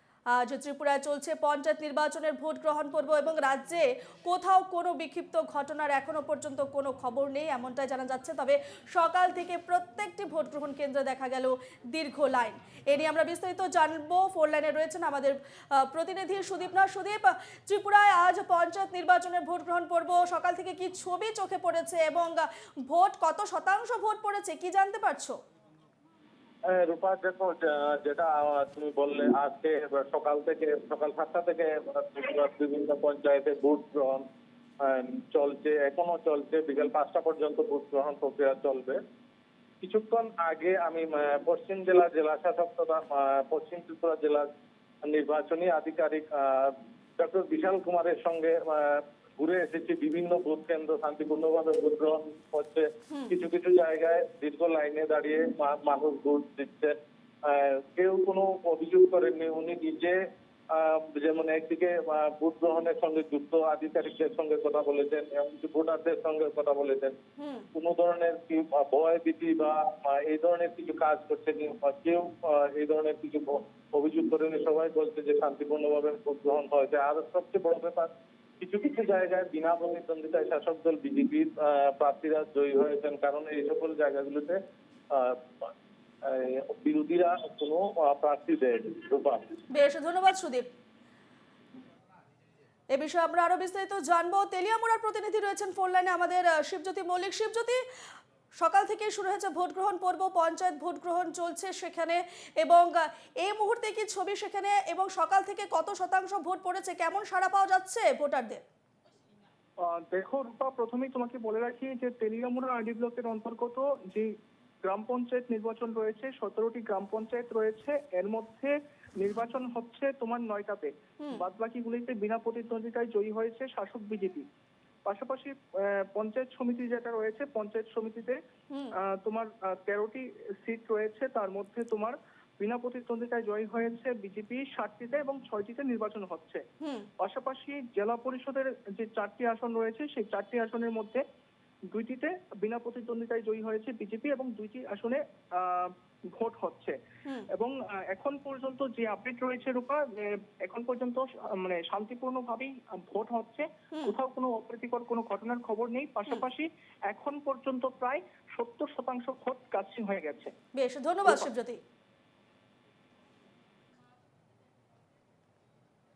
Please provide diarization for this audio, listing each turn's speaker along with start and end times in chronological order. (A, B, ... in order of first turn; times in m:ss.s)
0:00.3-0:25.4 A
0:26.7-0:34.2 B
0:34.8-0:39.0 B
0:39.8-0:44.5 B
0:45.0-1:00.2 B
0:53.1-0:53.4 A
1:00.7-1:07.2 B
1:07.4-1:07.7 A
1:07.7-1:24.6 B
1:25.1-1:25.7 B
1:26.2-1:29.5 B
1:29.7-1:30.6 A
1:32.9-1:37.8 A
1:38.6-1:48.6 A
1:49.8-1:54.3 C
1:54.8-2:04.4 C
2:05.0-2:08.4 C
2:09.0-2:16.6 C
2:16.8-2:17.1 A
2:17.2-2:21.2 C
2:21.9-2:27.0 C
2:27.5-2:40.5 C
2:40.7-2:41.8 A